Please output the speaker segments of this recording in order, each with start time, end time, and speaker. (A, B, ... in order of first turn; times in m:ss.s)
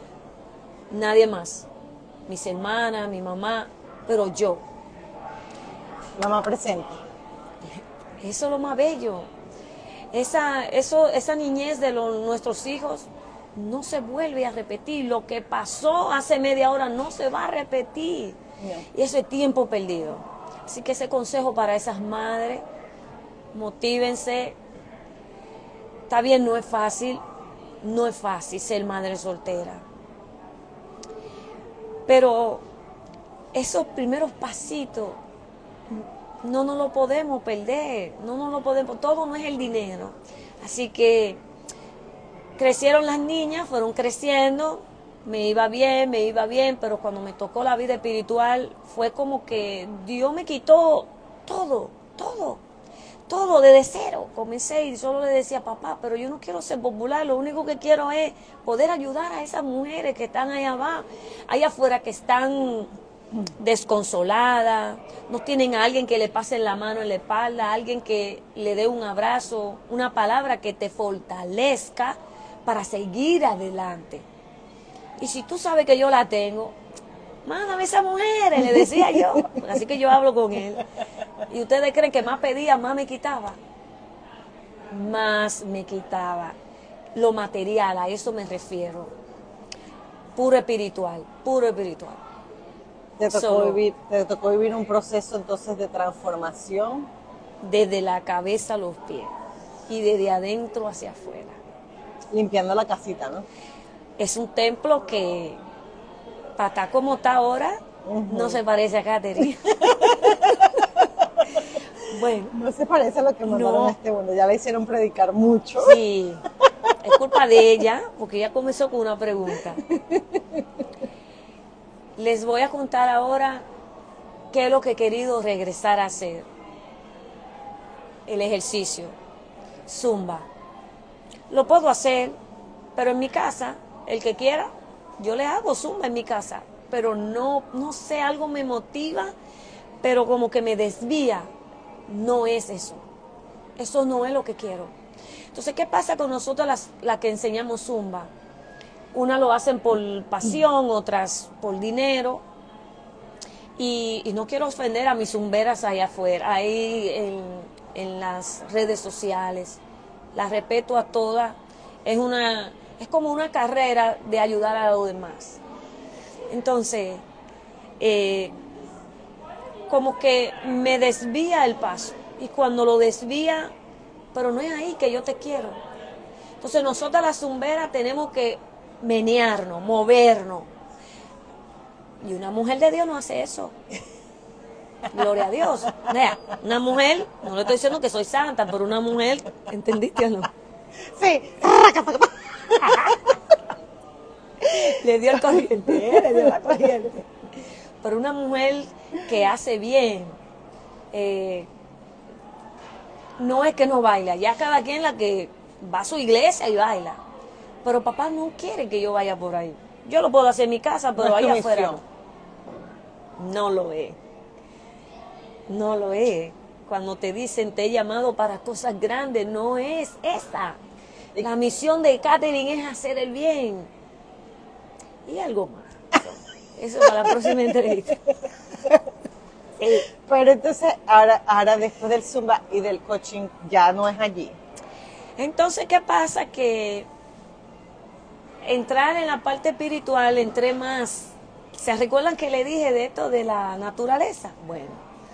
0:00.9-0:01.7 A
0:02.3-0:04.6 A
0:06.2-0:07.0 B
0:07.6-0:09.3 A
0:10.1-0:18.4 A
0:18.6-0:18.8 B
0:18.9-0:22.6 A
0:23.5-0:24.6 A
0:26.1-0:27.2 A
0:27.8-0:29.8 A
0:32.1-0:32.6 A
0:33.5-0:35.2 A
0:35.9-0:41.4 A
0:42.6-0:52.6 A
0:53.3-1:02.9 A
1:03.6-1:14.2 A
1:15.2-1:16.8 A
1:17.4-1:20.8 A
1:21.5-1:23.6 A
1:24.9-1:26.6 A
1:27.1-1:29.1 A
1:30.4-1:32.2 A
1:33.2-1:37.1 B
1:33.3-1:33.8 A
1:37.6-1:39.3 A
1:39.9-1:41.6 A
1:42.3-1:43.4 B
1:44.2-1:45.6 A
1:46.6-1:50.1 A
1:48.0-1:48.6 B
1:49.8-1:51.6 B
1:52.1-1:52.5 A
1:52.5-1:56.0 B
1:53.4-1:54.0 A
1:55.8-1:56.4 A
1:57.0-1:59.8 A
1:59.9-2:00.4 B
2:02.2-2:03.6 A
2:04.5-2:06.5 A
2:08.2-2:09.2 A
2:09.8-2:10.5 A
2:11.5-2:12.4 A
2:13.0-2:19.3 A
2:20.0-2:21.5 A
2:22.1-2:23.0 A
2:23.8-2:24.9 A
2:25.5-2:28.3 A
2:29.1-2:32.4 A
2:33.8-2:39.8 A
2:40.3-2:45.6 A
2:46.5-2:47.2 A
2:48.0-2:48.5 A
2:49.9-2:53.7 A
2:54.3-2:55.8 A
2:56.6-3:00.7 A
3:02.2-3:03.7 A
3:05.1-3:10.5 A
3:11.2-3:13.3 B
3:14.6-3:20.4 A
3:15.8-3:16.8 B
3:21.1-3:21.7 A
3:23.4-3:27.2 A
3:27.8-3:32.0 A
3:31.2-3:32.0 B
3:33.4-3:34.2 A
3:35.7-3:40.8 A
3:41.4-3:43.9 A
3:45.2-3:48.2 A
3:49.8-3:50.1 A
3:50.1-3:54.6 B
3:55.4-3:57.1 A
3:58.6-4:05.0 A